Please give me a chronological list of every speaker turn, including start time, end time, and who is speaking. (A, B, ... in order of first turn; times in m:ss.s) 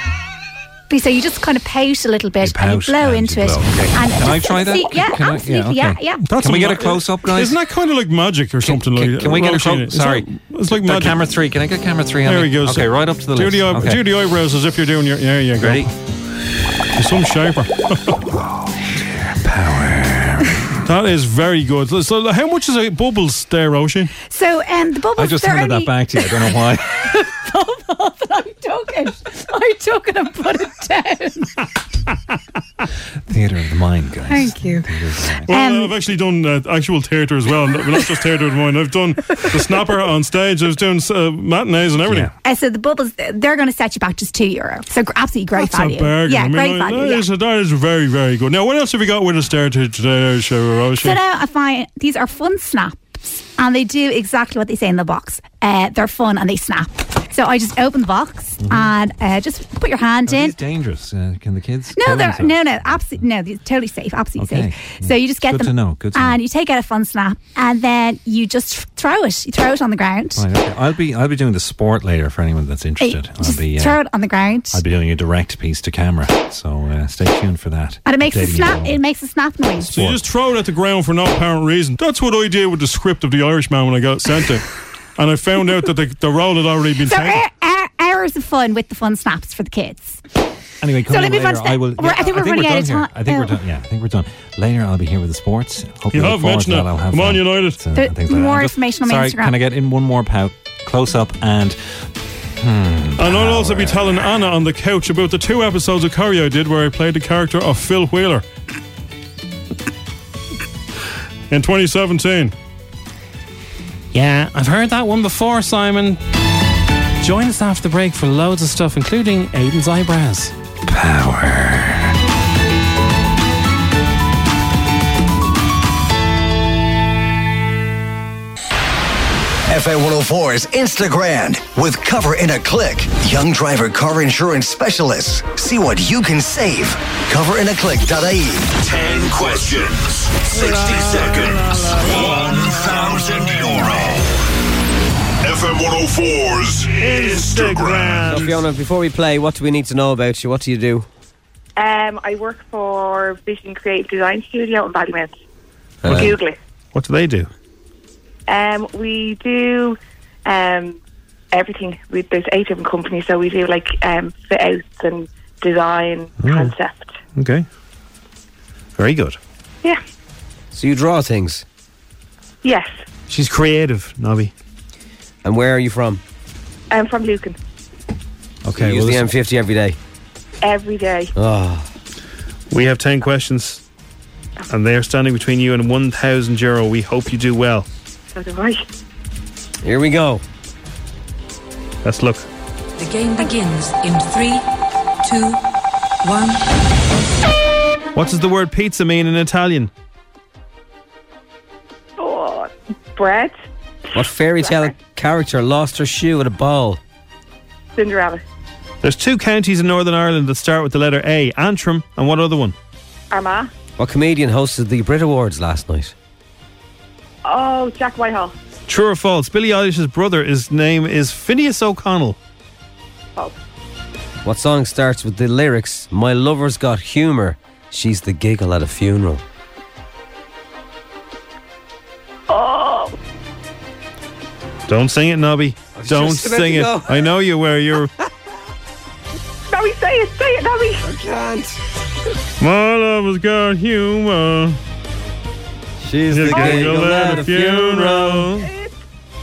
0:00.9-0:06.3 A
0:02.4-0:07.6 B
0:06.3-0:11.2 C
0:08.6-0:14.0 B
0:12.2-0:15.9 C
0:15.6-0:15.9 B
0:17.0-0:18.2 C
0:18.3-0:20.8 B
0:20.8-0:24.1 C
0:24.3-0:31.6 A
0:25.2-0:27.0 B
0:33.3-0:35.5 B
0:34.3-0:35.0 A
0:35.5-0:36.0 A
0:35.5-0:42.3 C
0:42.1-0:42.3 B
0:42.4-0:47.3 A
0:45.6-0:51.2 C
0:51.0-1:00.6 A
0:58.6-0:58.9 B
1:00.3-1:03.2 B
1:02.0-1:10.5 A
1:04.4-1:06.4 B
1:10.4-1:14.0 B
1:13.0-1:14.8 A
1:14.7-1:19.0 B
1:18.0-1:20.0 A
1:19.8-1:20.2 B
1:19.9-1:24.6 C
1:25.2-1:27.4 C
1:27.0-1:30.2 A
1:30.8-1:41.8 B
1:31.1-1:33.6 A
1:36.1-1:37.8 C
1:38.0-1:39.6 A
1:42.6-1:44.2 B
1:43.2-1:48.4 C
1:51.5-1:52.5 C
1:54.1-1:56.2 D
1:57.2-2:00.5 D
2:00.9-2:02.1 B
2:09.7-2:18.8 E
2:18.8-2:24.3 F
2:20.5-2:23.8 G
2:25.4-2:28.4 F
2:27.0-2:28.6 G
2:28.3-2:31.1 H
2:31.8-2:35.4 I
2:36.0-2:36.4 H
2:36.1-2:36.4 G
2:36.1-2:36.6 I
2:36.9-2:37.5 G
2:38.5-2:41.0 I
2:41.5-2:47.2 I
2:46.4-2:46.8 G
2:47.4-2:47.7 G
2:49.0-2:49.4 G
2:50.7-2:51.6 H
2:52.6-2:53.0 I
2:53.3-2:54.5 G
2:55.4-2:56.2 H
2:56.9-2:57.6 I
2:58.7-2:59.3 G
2:58.7-3:00.0 H
3:00.6-3:01.3 I
3:01.4-3:01.9 H
3:02.7-3:03.8 G
3:04.7-3:07.9 G
3:08.3-3:08.8 I
3:09.8-3:10.4 H
3:12.0-3:12.5 G
3:13.0-3:14.6 J
3:15.2-3:15.6 J
3:16.2-3:16.6 J
3:18.2-3:19.9 G
3:22.2-3:23.6 I
3:24.1-3:27.0 H
3:24.2-3:24.9 I
3:28.0-3:28.4 I
3:29.0-3:32.8 G
3:33.3-3:33.7 I
3:34.0-3:36.1 H
3:37.4-3:38.5 I
3:38.9-3:42.4 G
3:44.4-3:49.4 H
3:52.5-3:53.2 I
3:54.9-3:58.1 G
3:56.0-3:57.3 H
3:59.7-4:01.0 I
4:01.0-4:01.8 H
4:02.6-4:04.6 C
4:06.0-4:08.5 H
4:06.3-4:08.2 C
4:06.4-4:08.7 G
4:08.6-4:08.9 I